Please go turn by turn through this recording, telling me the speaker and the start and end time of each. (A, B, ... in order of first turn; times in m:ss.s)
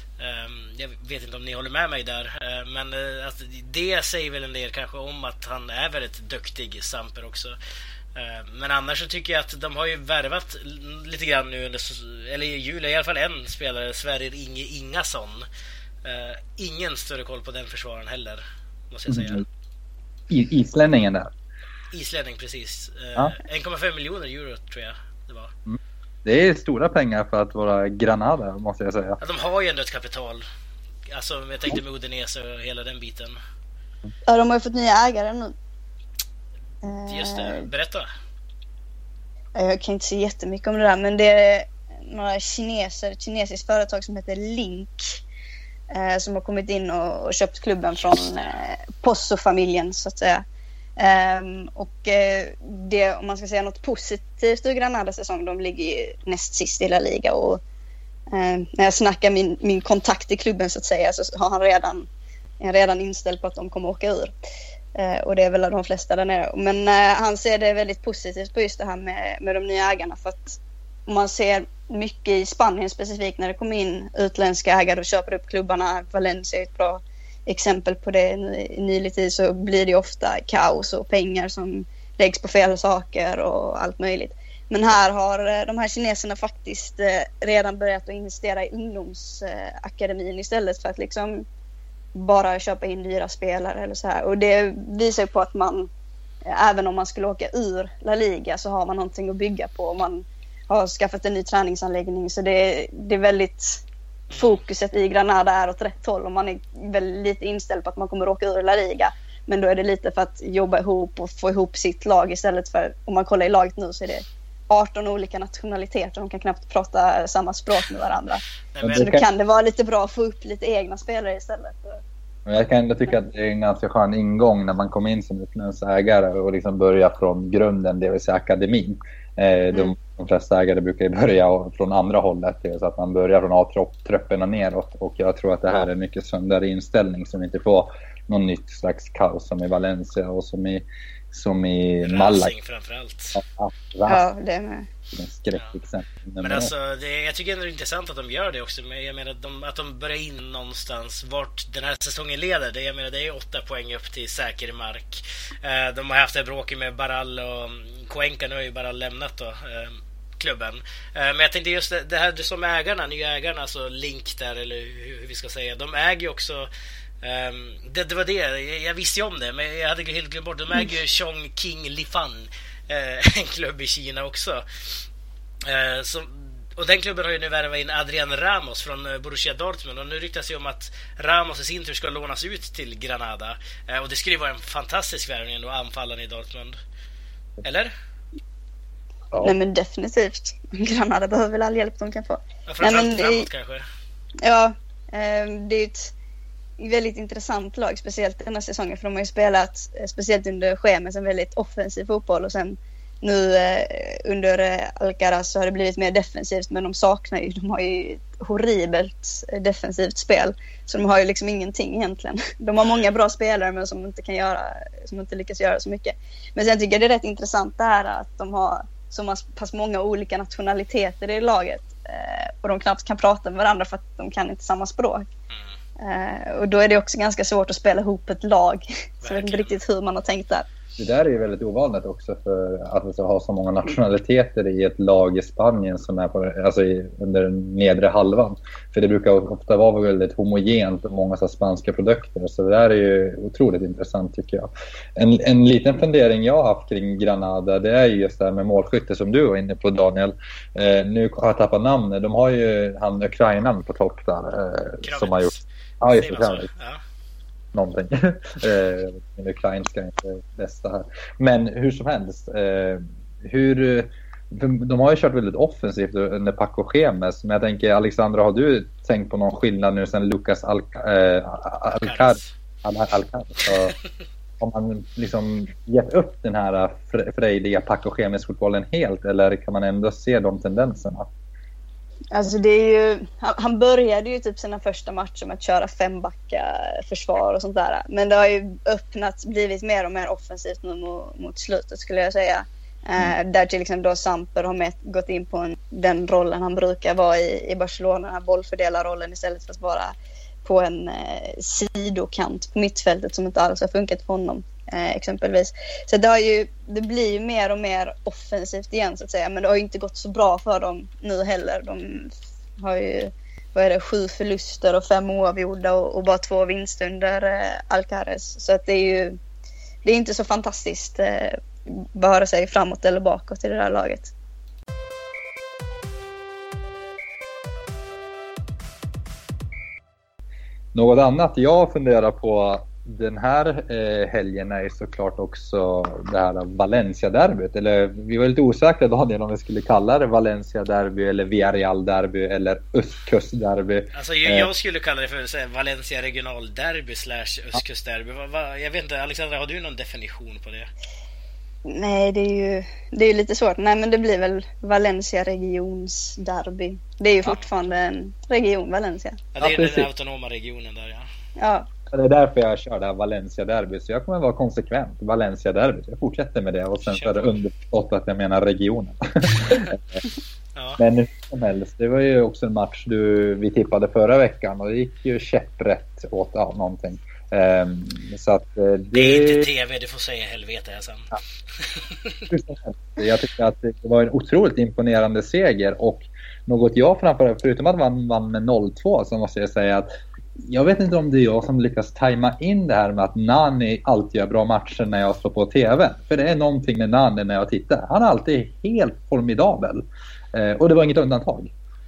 0:00.2-0:07.6 A
0:08.1-0:15.4 A
0:16.0-0:19.4 A
0:19.1-0:19.4 B
0:20.3-0:21.3 B
0:21.9-0:25.5 A
0:25.6-0:29.2 B
0:29.2-0:30.4 A
0:31.1-0:33.4 A
0:34.3-0:35.5 C
0:36.8-0:37.7 C
0:37.1-0:38.1 A
0:39.6-0:45.2 C
0:45.9-0:50.4 C
0:51.0-0:57.6 C
0:58.3-1:02.1 C
1:02.6-1:04.3 C
1:04.9-1:31.4 C
1:32.1-1:35.9 C
1:36.4-1:43.8 C
1:44.3-1:44.6 A
1:44.3-2:02.0 C
1:58.7-1:59.2 A
1:58.8-1:59.2 B
2:02.4-2:22.5 B
2:22.0-2:23.4 A
2:23.3-2:24.2 B
2:24.1-2:24.9 C
2:25.1-2:26.7 B
2:26.4-2:46.7 A
2:47.2-2:55.0 A
2:55.6-3:06.8 A
3:07.6-3:07.9 A
3:09.4-3:13.5 C
3:12.7-3:13.8 A
3:14.4-3:16.1 C
3:16.8-3:45.3 C
3:32.8-3:33.1 A
3:46.0-3:50.7 C
3:49.2-3:49.8 A
3:51.0-4:16.7 B
4:15.0-4:17.0 A
4:17.7-4:34.0 B
4:32.0-4:32.4 A
4:34.6-4:41.3 B
4:42.3-5:19.4 C
5:20.0-5:24.3 C
5:30.9-5:44.7 B
5:44.1-5:50.9 A
5:51.8-5:59.4 C
5:59.5-6:01.3 A
5:59.6-6:00.1 B
6:01.6-6:01.9 C
6:02.1-6:10.2 B
6:07.1-6:07.6 A
6:11.0-6:19.7 B
6:19.1-6:21.3 A
6:21.8-6:22.4 A
6:22.5-6:30.1 B
6:30.6-6:41.7 B